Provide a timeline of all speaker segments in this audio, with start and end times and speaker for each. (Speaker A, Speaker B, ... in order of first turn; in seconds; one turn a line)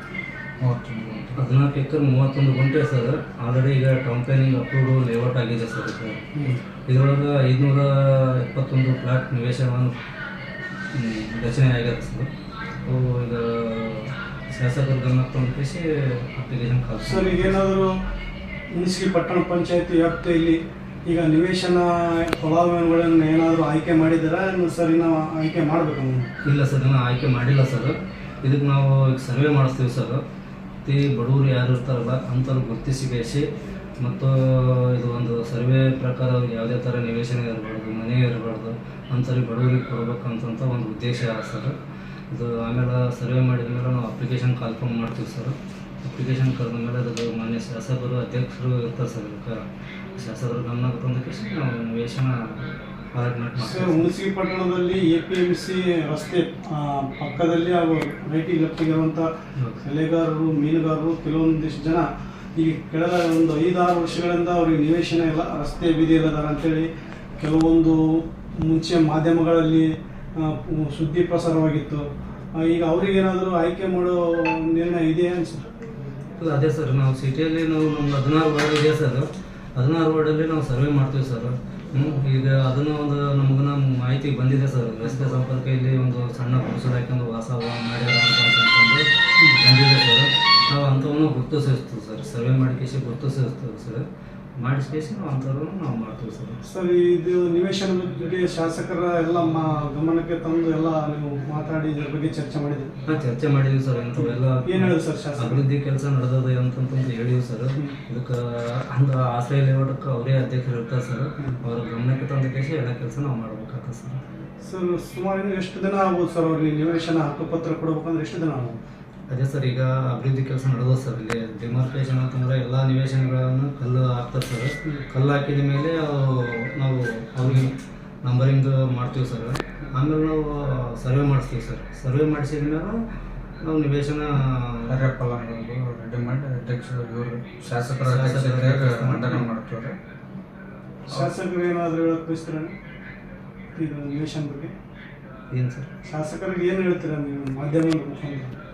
Speaker A: 0.6-1.3
Speaker B: 1.4-6.2
Speaker C: 6.3-6.6
Speaker B: 6.9-9.9
Speaker B: 10.9-12.3
Speaker B: 12.9-17.7
Speaker C: 17.0-17.9
Speaker C: 18.8-26.3
Speaker B: 26.4-30.2
Speaker B: 30.9-33.5
Speaker B: 34.0-41.8
Speaker B: 42.3-49.6
Speaker B: 50.2-54.1
Speaker C: 53.6-59.3
Speaker C: 59.8-62.1
Speaker C: 62.6-66.9
Speaker C: 67.4-72.0
Speaker C: 72.6-75.7
Speaker B: 76.4-94.0
Speaker C: 82.0-82.2
Speaker C: 85.1-85.4
Speaker B: 94.6-96.6
Speaker C: 96.7-102.9
Speaker B: 103.1-114.2
Speaker C: 104.2-105.6
Speaker C: 114.6-118.8
Speaker B: 119.3-133.0
Speaker B: 133.6-135.0
Speaker A: 134.9-139.9
Speaker B: 137.8-139.5
Speaker C: 141.1-142.7
Speaker C: 143.8-144.7
Speaker B: 145.5-145.9
Speaker C: 146.1-148.6